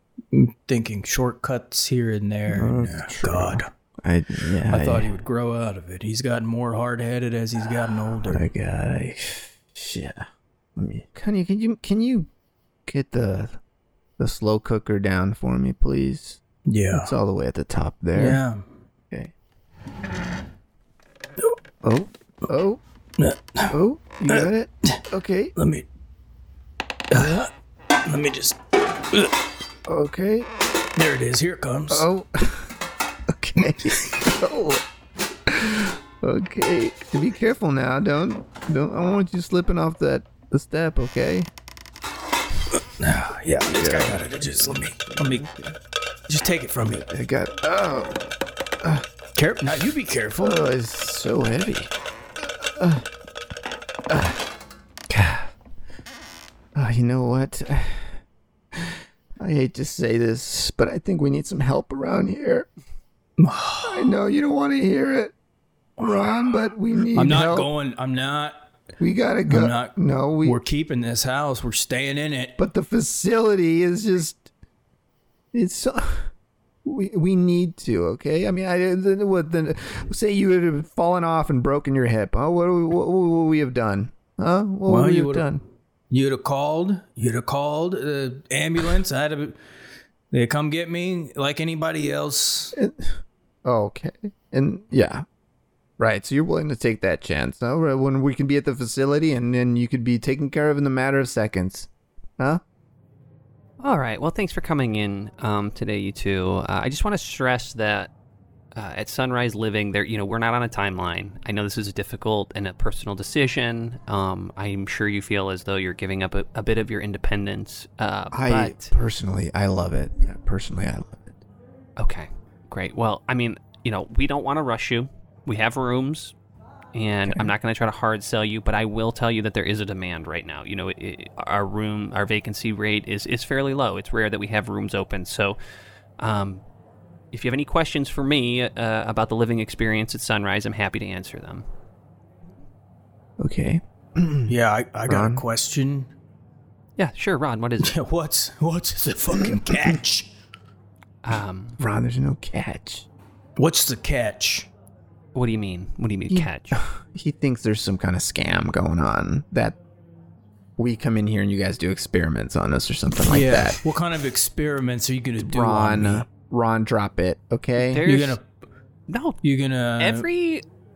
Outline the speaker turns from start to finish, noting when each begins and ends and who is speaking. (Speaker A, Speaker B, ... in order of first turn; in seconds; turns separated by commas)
Speaker A: 0.3-3.7, Speaker B: 2.5-5.1, Speaker A: 4.7-8.4, Speaker B: 8.2-12.3, Speaker B: 12.8-13.6, Speaker B: 14.2-16.4, Speaker A: 16.6-17.1, Speaker B: 16.9-18.4, Speaker A: 18.1-18.6, Speaker B: 21.8-22.8, Speaker A: 23.2-25.0, Speaker B: 23.7-25.5, Speaker A: 25.6-25.9, Speaker A: 27.1-27.5, Speaker B: 27.1-27.4, Speaker A: 28.0-29.3, Speaker B: 29.9-30.5, Speaker A: 30.9-32.0, Speaker B: 31.9-32.7, Speaker B: 33.3-34.8, Speaker A: 33.8-34.2, Speaker B: 35.5-41.5, Speaker A: 42.7-45.4, Speaker B: 43.6-45.8, Speaker A: 46.3-47.0, Speaker B: 46.8-49.0, Speaker A: 49.3-50.6, Speaker B: 50.4-53.0, Speaker B: 54.1-54.4, Speaker B: 55.1-55.5, Speaker B: 56.7-58.1, Speaker B: 58.7-62.7, Speaker A: 63.4-64.1, Speaker B: 63.8-65.3, Speaker B: 66.0-67.7, Speaker A: 67.1-68.6, Speaker B: 69.0-70.6, Speaker A: 69.5-72.6, Speaker B: 72.6-74.5, Speaker B: 75.5-76.3, Speaker B: 76.8-85.6, Speaker A: 84.9-85.5, Speaker A: 86.1-89.6, Speaker A: 90.3-92.7, Speaker B: 92.7-95.2, Speaker B: 96.0-102.6, Speaker C: 103.8-108.1, Speaker C: 108.7-118.9, Speaker B: 118.3-121.4, Speaker C: 122.0-126.3, Speaker C: 126.9-135.6, Speaker B: 127.3-127.5, Speaker C: 136.2-136.6, Speaker C: 137.3-141.6, Speaker B: 143.4-144.5, Speaker A: 144.5-146.1, Speaker B: 145.1-145.4, Speaker C: 147.0-147.9, Speaker A: 147.8-150.3, Speaker C: 151.2-151.8, Speaker B: 151.8-153.1, Speaker A: 153.6-154.7, Speaker C: 155.3-156.8, Speaker B: 156.3-159.8, Speaker B: 160.8-163.8, Speaker A: 163.2-166.2, Speaker B: 165.4-168.0, Speaker C: 167.8-168.4, Speaker A: 168.0-168.4, Speaker C: 169.1-169.4, Speaker A: 169.4-170.3, Speaker C: 170.0-170.6